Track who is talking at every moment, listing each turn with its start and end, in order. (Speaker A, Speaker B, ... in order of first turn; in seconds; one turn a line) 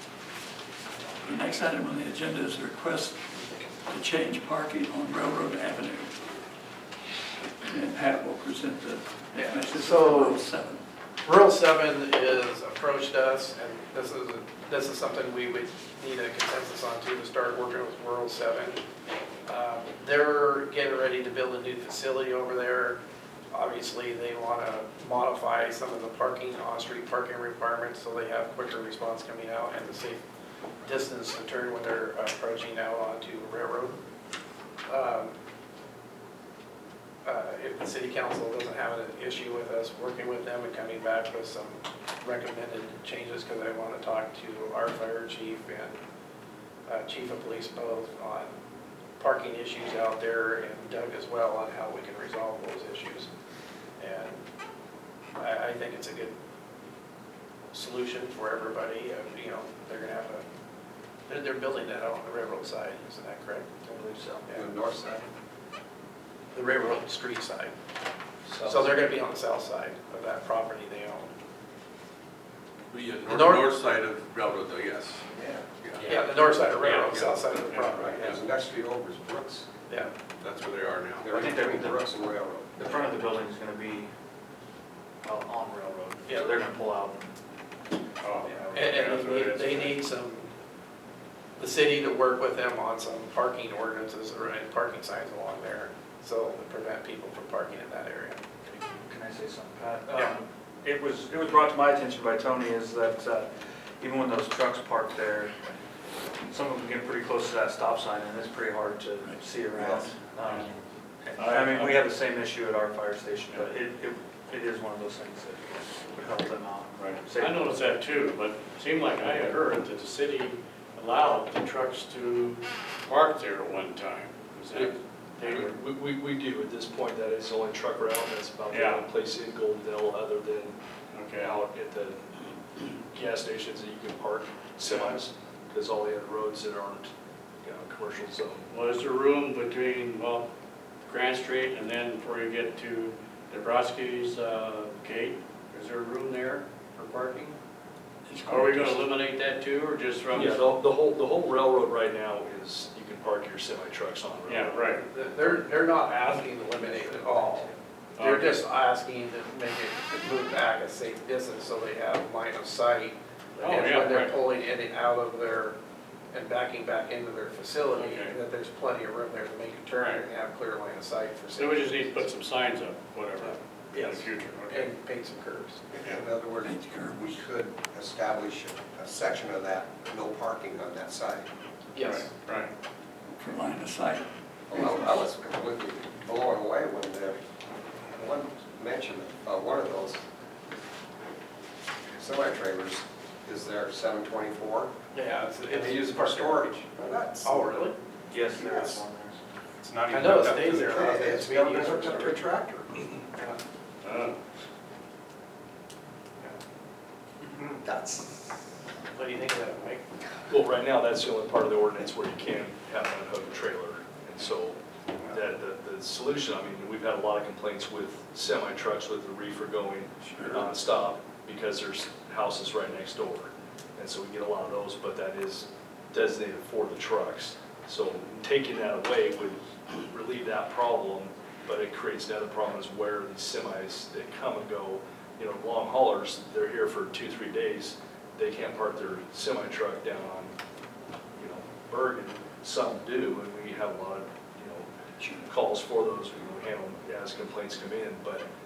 Speaker A: 1.2-3.2
Speaker A: 3.9-6.2
Speaker A: 7.6-10.8
Speaker B: 9.4-10.4
Speaker B: 11.2-18.8
Speaker B: 19.4-23.0
Speaker B: 23.5-30.2
Speaker B: 30.8-34.0
Speaker B: 34.9-35.3
Speaker B: 37.2-46.0
Speaker B: 46.9-48.5
Speaker B: 49.2-53.3
Speaker B: 54.0-54.5
Speaker B: 55.4-56.3
Speaker B: 57.7-60.4
Speaker B: 61.3-63.7
Speaker C: 63.9-64.4
Speaker D: 64.5-65.3
Speaker B: 66.5-67.7
Speaker E: 68.5-68.9
Speaker B: 68.6-71.3
Speaker F: 72.9-75.1
Speaker B: 73.2-73.7
Speaker D: 75.3-75.7
Speaker G: 76.0-76.2
Speaker B: 76.0-78.3
Speaker G: 76.8-77.9
Speaker D: 77.9-79.7
Speaker B: 79.9-80.1
Speaker F: 80.4-81.3
Speaker D: 81.2-83.0
Speaker C: 81.3-82.1
Speaker C: 82.8-84.1
Speaker C: 85.2-87.3
Speaker B: 86.3-86.5
Speaker G: 88.2-90.0
Speaker C: 88.4-88.8
Speaker B: 88.7-90.5
Speaker B: 91.6-98.4
Speaker C: 98.6-105.7
Speaker C: 106.5-117.8
Speaker G: 110.4-110.7
Speaker G: 111.3-112.1
Speaker G: 117.0-125.7
Speaker E: 124.7-130.8
Speaker G: 128.7-129.1
Speaker G: 131.1-131.6
Speaker E: 131.4-132.2
Speaker E: 133.1-137.1
Speaker E: 137.6-138.7
Speaker G: 138.7-140.5
Speaker G: 141.1-147.5
Speaker G: 148.3-150.7
Speaker E: 150.3-154.9
Speaker G: 154.4-155.0
Speaker B: 154.9-165.8
Speaker C: 157.2-157.7
Speaker G: 158.2-158.6
Speaker G: 163.6-164.3
Speaker B: 166.3-172.3
Speaker G: 167.9-168.3
Speaker G: 171.6-174.9
Speaker B: 173.4-175.8
Speaker D: 175.9-181.5
Speaker A: 176.7-177.3
Speaker B: 181.9-182.3
Speaker G: 182.0-182.7
Speaker A: 183.3-184.2
Speaker D: 184.7-187.4
Speaker D: 188.1-190.2
Speaker D: 192.2-194.9
Speaker B: 195.1-196.7
Speaker D: 195.7-197.7
Speaker B: 197.4-197.9
Speaker C: 198.3-199.4
Speaker D: 198.6-199.0
Speaker B: 200.1-202.4
Speaker D: 200.3-202.9
Speaker G: 204.0-204.4
Speaker D: 207.8-208.4
Speaker B: 209.1-210.1
Speaker E: 210.5-240.5
Speaker E: 241.3-248.4